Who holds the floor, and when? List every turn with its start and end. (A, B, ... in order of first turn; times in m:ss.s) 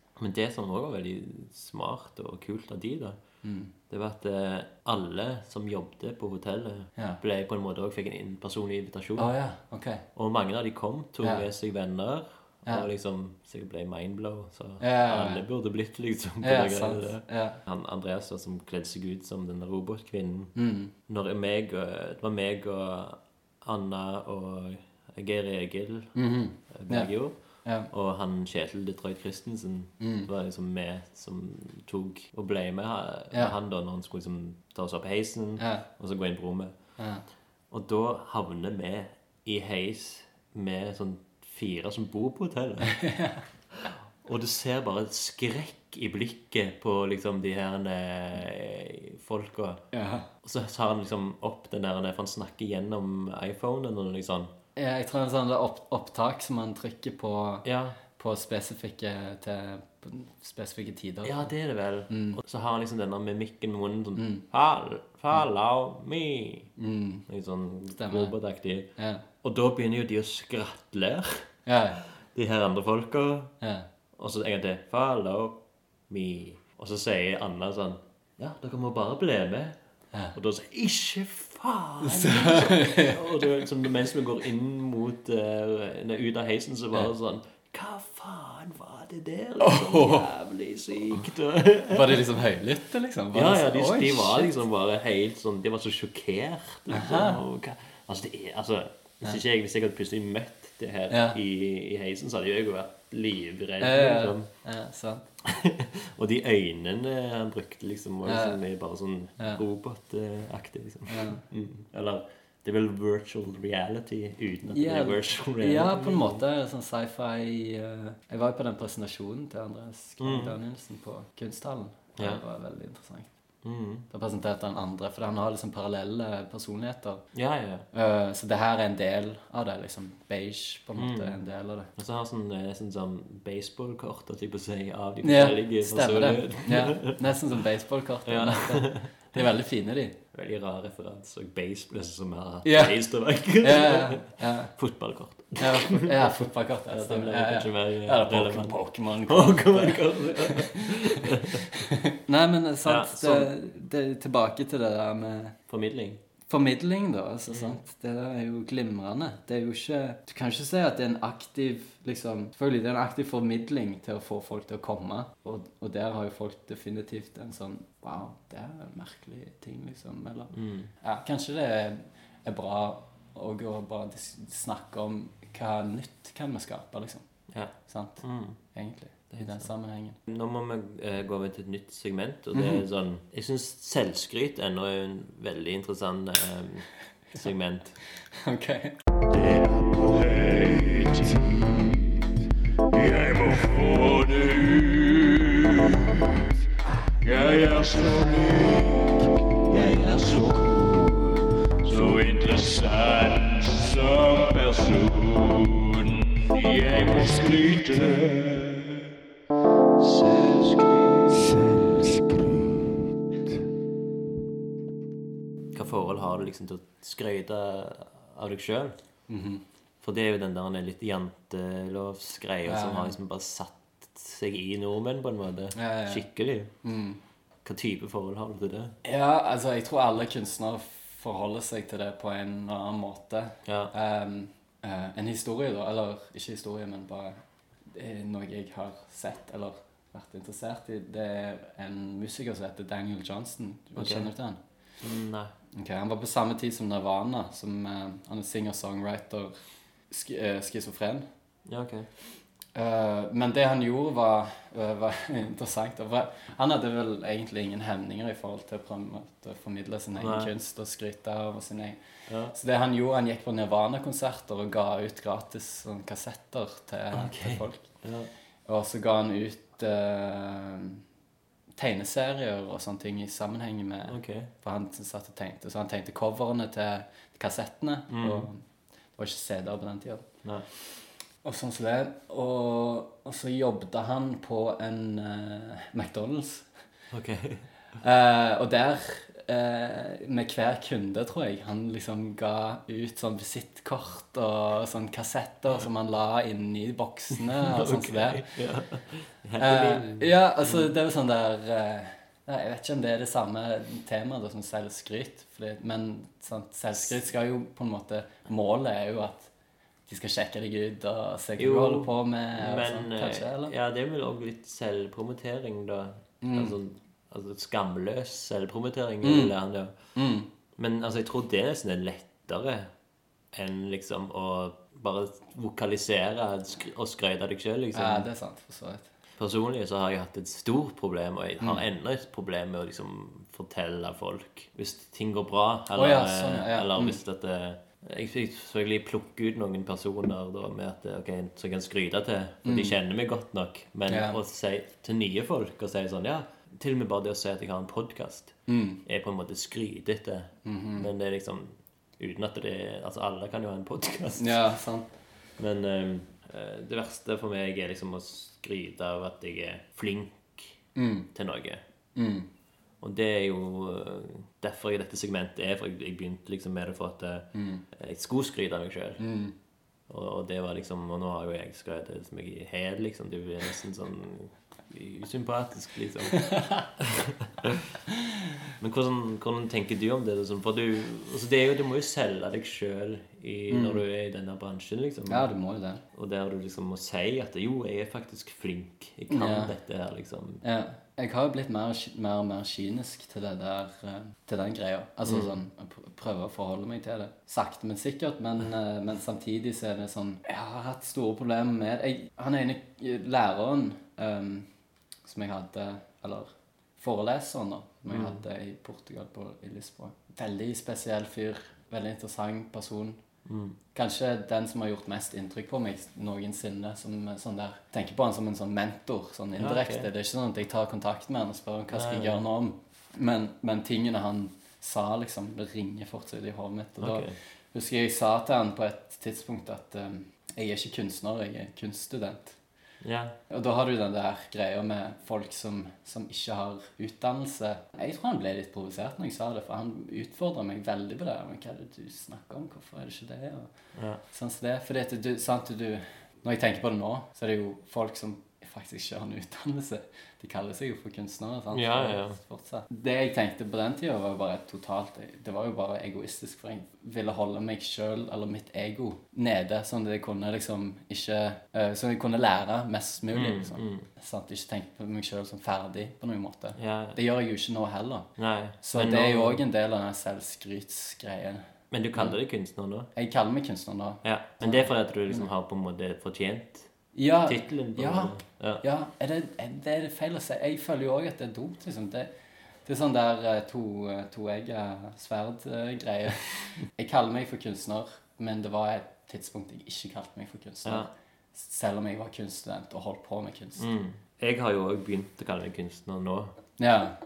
0:00.2-0:03.2 A
0:03.4-0:03.7 B
0:03.9-0:09.3 A
0:09.2-0:10.0 B
0:10.2-0:20.6 A
0:14.8-0:15.4 B
0:16.4-0:17.6 B
0:20.6-0:20.9 B
0:21.1-0:26.2 A
0:26.2-0:27.1 B
0:26.7-0:27.4 A
0:27.6-0:27.9 B
0:27.9-0:36.7 A
0:30.0-0:30.3 B
0:35.6-0:35.8 B
0:37.0-0:37.2 B
0:37.7-0:43.0 A
0:42.8-0:43.4 B
0:44.2-0:49.8 A
0:49.9-0:50.3 B
0:50.4-0:54.5 A
0:54.8-1:01.5 B
0:57.6-0:58.0 A
1:01.2-1:06.7 A
1:02.1-1:02.4 B
1:04.2-1:04.4 B
1:06.8-1:07.3 B
1:07.3-1:08.9 A
1:07.9-1:08.4 B
1:09.0-1:09.2 B
1:09.4-1:11.4 A
1:11.7-1:12.0 B
1:12.2-1:13.5 A
1:13.6-1:13.9 B
1:14.2-1:19.8 A
1:20.3-1:32.3 A
1:22.0-1:23.5 B
1:29.6-1:30.3 B
1:31.9-1:34.6 B
1:33.3-1:44.5 A
1:36.9-1:37.4 B
1:41.1-1:41.4 B
1:43.8-1:45.3 B
1:45.4-1:56.4 A
1:48.2-1:48.6 B
1:51.1-1:51.4 B
1:54.7-2:03.3 B
2:00.2-2:00.6 A
2:02.2-2:02.4 A
2:03.6-2:04.1 A
2:04.1-2:07.2 B
2:07.3-2:07.9 A
2:07.9-2:11.9 B
2:11.0-2:11.4 A
2:12.0-2:17.4 A
2:15.2-2:20.2 B
2:18.3-2:19.1 A
2:20.3-2:31.7 A
2:22.6-2:23.0 B
2:23.6-2:24.7 B
2:25.6-2:35.6 B
2:32.8-2:33.5 A
2:35.7-2:36.2 A
2:36.5-2:57.2 B
2:37.5-2:37.8 A
2:50.5-2:50.9 A
2:57.5-2:58.6 A
2:57.9-3:00.2 B
2:59.3-2:59.7 A
3:00.3-3:08.0 A
3:02.5-3:02.8 B
3:08.3-3:08.9 B
3:09.3-3:12.4 C
3:12.9-3:16.5 C
3:17.2-3:21.3 C
3:19.8-3:20.6 B
3:21.8-3:29.1 C
3:35.7-3:39.0 A
3:39.3-3:39.6 B
3:40.0-3:46.7 A
3:42.7-3:43.2 B
3:45.7-3:46.3 B
3:46.8-3:47.2 B
3:47.6-3:49.0 A
3:49.0-3:57.4 B
3:53.6-3:53.9 A
3:57.9-4:04.6 B
4:04.0-4:04.3 A
4:05.0-4:05.5 A
4:05.8-4:09.5 B
4:10.1-4:11.2 B
4:11.7-4:12.1 A
4:12.7-4:22.0 B
4:20.2-4:20.5 A
4:22.3-4:22.6 A
4:22.5-4:27.9 B
4:27.1-4:28.3 A
4:28.7-4:31.0 B
4:31.8-4:38.6 B
4:34.1-4:34.5 A
4:38.1-4:38.5 A
4:39.2-4:40.3 B
4:41.4-4:46.7 B
4:47.1-4:47.7 A
4:48.0-4:58.5 B
4:57.4-5:00.9 A
4:59.6-5:09.5 B
5:10.1-5:13.7 B
5:11.6-5:19.9 A
5:16.4-5:16.8 B
5:19.2-5:19.6 B
5:20.2-5:20.5 B
5:20.8-5:22.9 A
5:23.5-5:28.3 A
5:27.9-5:29.1 B
5:29.4-5:48.5 A
5:36.0-5:37.2 B
5:42.6-5:43.0 B
5:44.1-5:44.4 B
5:48.7-5:49.0 B
5:49.0-5:54.6 A
5:50.6-5:51.1 B
5:54.4-5:55.1 B
5:55.6-6:00.8 A
6:01.0-6:01.3 B
6:01.3-6:01.8 A
6:02.2-6:02.5 B
6:03.0-6:09.2 A
6:07.5-6:07.8 B
6:09.2-6:09.5 B
6:10.1-6:18.0 A
6:16.3-6:16.9 B
6:18.8-6:25.5 A
6:23.7-6:24.0 B
6:25.3-6:26.0 B
6:26.1-6:30.6 A
6:29.3-6:29.7 B
6:30.6-6:44.7 B
6:35.3-6:35.6 A
6:45.2-6:53.2 B
6:48.1-6:48.4 A
6:53.5-6:53.8 A
6:53.9-7:12.6 B
6:59.6-7:00.1 A
7:01.9-7:02.4 A
7:07.0-7:07.4 A
7:13.0-7:13.4 A
7:13.5-7:23.7 B
7:24.0-7:24.2 A
7:24.3-7:48.3 B
7:31.7-7:32.4 A
7:43.3-7:44.1 A
7:46.8-7:47.2 A
7:48.4-7:49.6 A
7:48.8-7:52.4 B
7:51.9-7:53.1 A
7:53.2-7:55.5 B
7:54.2-7:56.9 A
7:57.1-8:02.3 B
7:57.4-7:58.8 A
8:02.8-8:13.9 B
8:13.8-8:16.5 A
8:16.8-8:17.2 B